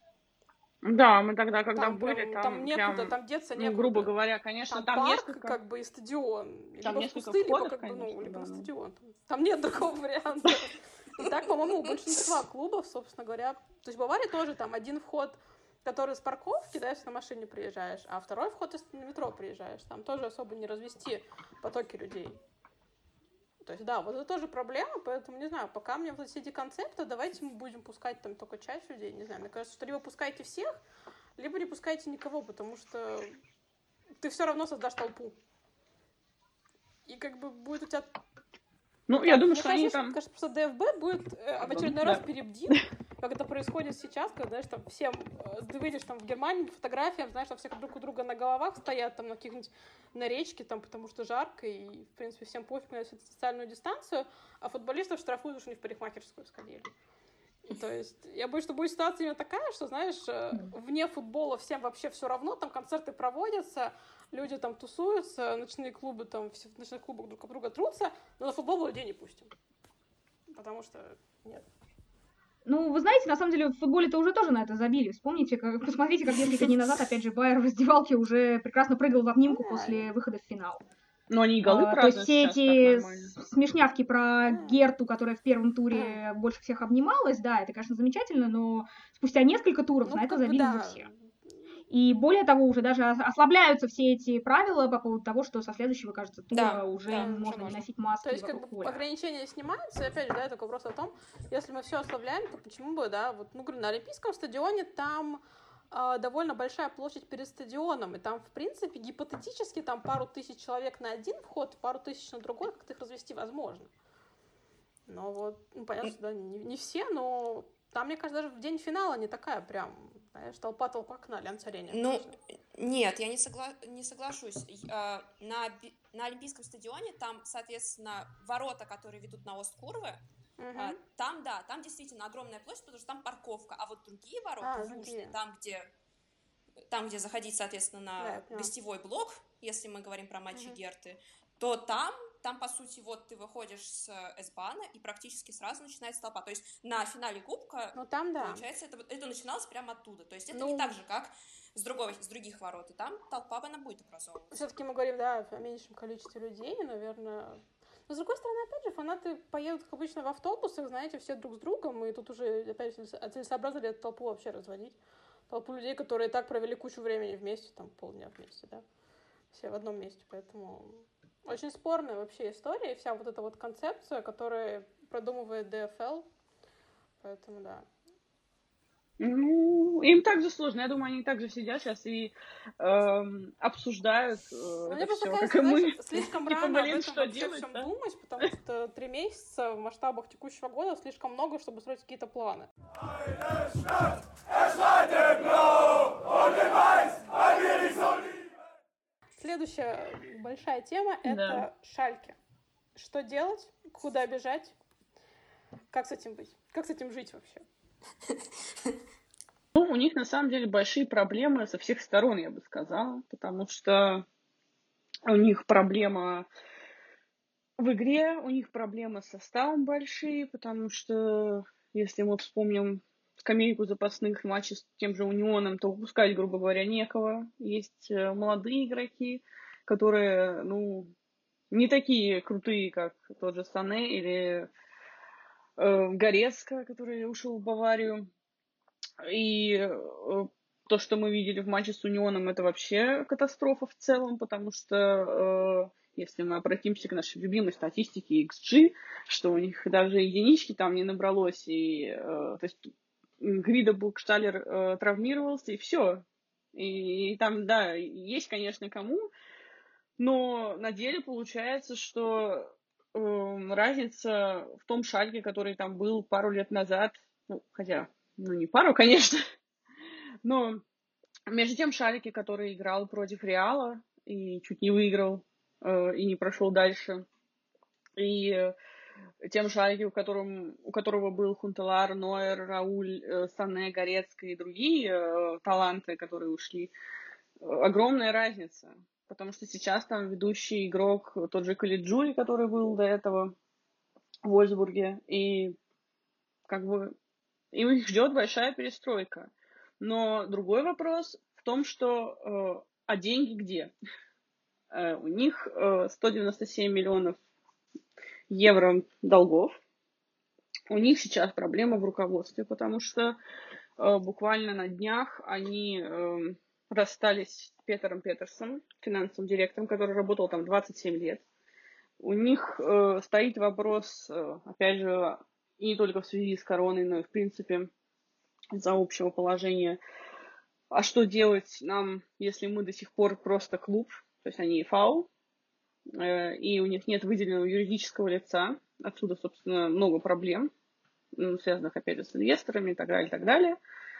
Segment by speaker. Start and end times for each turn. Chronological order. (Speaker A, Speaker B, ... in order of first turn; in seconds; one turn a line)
Speaker A: 0.8-5.6
Speaker B: 1.7-4.1
Speaker B: 4.7-22.4
Speaker A: 6.8-8.7
Speaker B: 23.6-30.8
Speaker B: 31.4-33.4
Speaker B: 34.2-35.4
Speaker B: 37.1-38.1
Speaker A: 39.1-40.2
Speaker B: 39.2-56.9
Speaker A: 41.6-42.8
Speaker B: 57.7-69.5
Speaker B: 70.5-71.7
Speaker C: 72.7-80.8
Speaker B: 79.5-80.1
Speaker A: 81.3-83.3
Speaker C: 81.6-91.1
Speaker B: 84.4-84.8
Speaker B: 85.9-86.2
Speaker B: 90.0-91.2
Speaker C: 91.9-99.0
Speaker D: 96.5-97.8
Speaker B: 97.1-113.9
Speaker B: 115.1-122.3
Speaker D: 121.9-130.2
Speaker B: 130.6-131.0
Speaker D: 130.8-135.9
Speaker B: 134.6-135.4
Speaker D: 136.9-154.6
Speaker B: 138.2-138.7
Speaker B: 140.5-140.8
Speaker B: 147.9-148.7
Speaker B: 150.5-150.9
Speaker B: 154.5-165.0
Speaker B: 165.5-168.8
Speaker B: 169.5-176.3
Speaker B: 177.2-177.9
Speaker A: 179.2-187.9
Speaker B: 184.9-192.7
Speaker B: 199.4-202.4
Speaker A: 201.3-201.7
Speaker B: 202.9-204.8
Speaker B: 205.9-207.7
Speaker A: 209.7-214.2
Speaker A: 215.3-216.5
Speaker A: 217.8-231.1
Speaker A: 231.7-234.7
Speaker A: 235.8-238.3
Speaker A: 239.2-259.3
Speaker A: 260.2-269.4
Speaker A: 270.4-270.8
Speaker A: 271.5-277.3
Speaker A: 278.2-278.7
Speaker A: 279.4-286.9
Speaker A: 287.6-293.6
Speaker A: 294.4-295.8
Speaker A: 296.7-297.1
Speaker A: 297.7-303.9
Speaker A: 304.9-307.4
Speaker A: 308.5-309.8
Speaker A: 310.9-313.4
Speaker A: 314.0-321.4
Speaker A: 322.2-327.9
Speaker A: 328.7-330.0
Speaker A: 330.9-335.3
Speaker A: 336.2-340.7
Speaker A: 341.4-343.8